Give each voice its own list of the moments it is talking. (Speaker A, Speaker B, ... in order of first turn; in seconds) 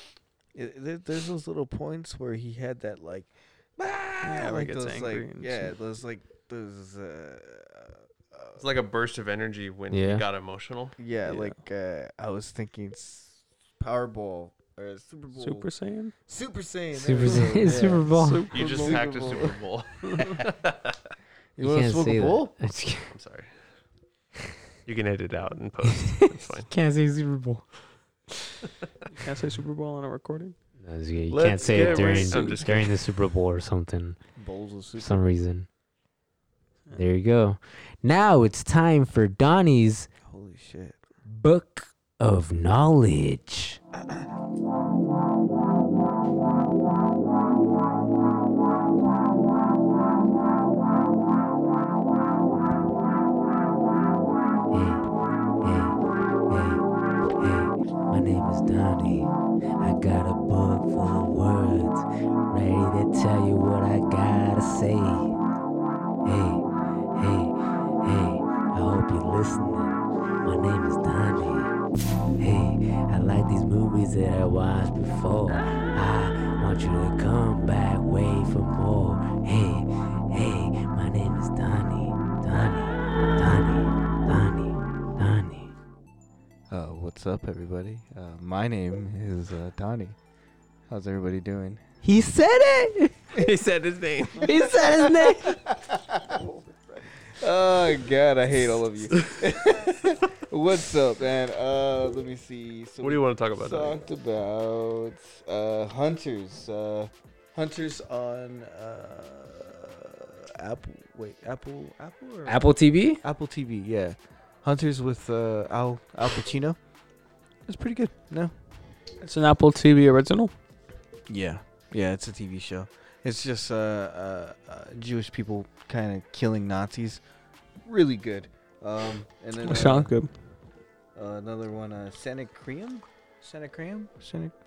Speaker A: 0.5-8.6, 11.0-15.7, 16.3-19.6, 21.6-22.5, 34.4-35.2, 40.2-41.0, 44.0-44.2, 86.7-90.2, 90.9-91.8, 94.8-112.7, 113.2-116.8, 117.7-118.5, 121.3-127.2, 127.8-130.1, 131.1-134.5
Speaker B: 4.2-5.7, 11.2-11.6, 15.3-16.1, 17.2-19.1, 20.0-20.3, 29.1-30.5, 31.6-32.7, 119.2-120.5, 129.6-130.3
Speaker C: 8.6-10.9, 18.5-21.0, 23.1-23.6, 24.9-26.7, 31.3-33.0, 93.3-94.5, 103.0-104.0
Speaker D: 9.9-10.2, 16.9-18.4, 21.6-23.1, 26.7-27.6, 30.8-34.2, 35.0-35.7, 36.9-40.1, 41.2-43.8, 54.7-55.0, 55.6-56.0, 56.5-56.8, 57.4-65.3, 66.2-66.6, 67.1-71.7, 72.4-85.7, 92.0-93.2, 94.5-95.6, 112.5-113.2